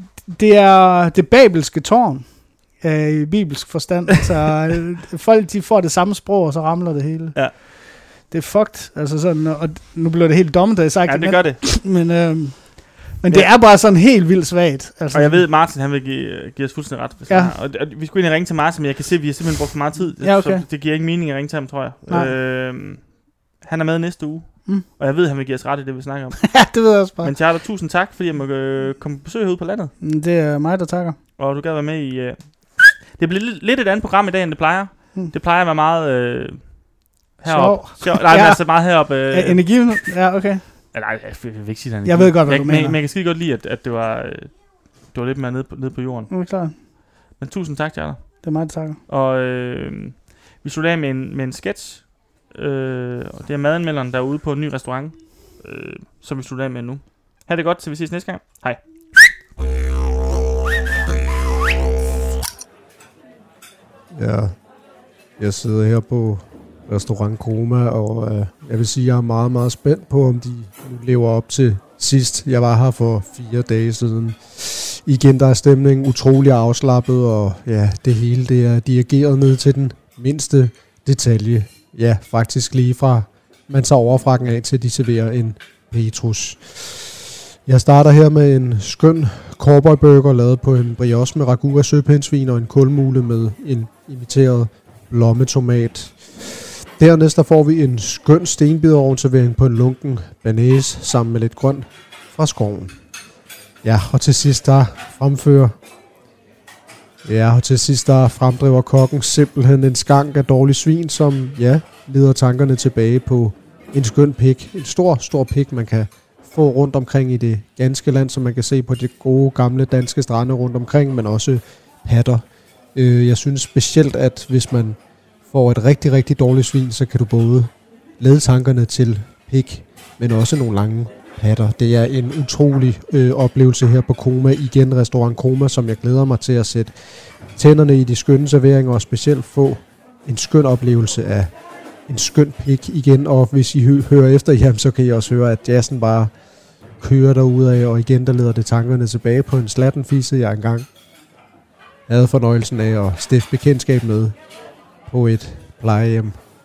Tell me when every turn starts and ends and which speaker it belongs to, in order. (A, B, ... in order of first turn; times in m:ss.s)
0:00.3-0:07.6 A
0:08.3-0:15.4 A
0:11.1-0:11.6 B
0:15.1-0:23.1 B
0:17.3-0:17.5 A
0:20.2-0:20.6 A
0:22.1-0:22.3 A
0:23.6-0:26.6 B
0:26.4-0:27.3 A
0:27.2-0:29.9 B
0:30.0-0:31.2 A
0:31.4-0:36.6 B
0:37.4-0:39.9 B
0:37.5-0:40.6 A
0:40.9-0:44.6 B
0:42.0-0:43.0 A
0:45.1-0:46.3 B
0:46.3-0:46.7 A
0:47.4-0:48.5 B
0:48.4-0:49.0 A
0:49.1-0:59.3 B
1:04.1-1:04.6 C
1:05.4-1:43.0 C
1:43.8-1:45.7 C
1:47.2-2:02.4 C
2:02.9-2:05.0 C
2:05.5-2:17.0 C
2:17.5-2:21.5 C
2:22.1-2:26.3 C
2:27.0-2:30.9 C
2:32.1-2:34.4 C
2:35.1-2:36.4 C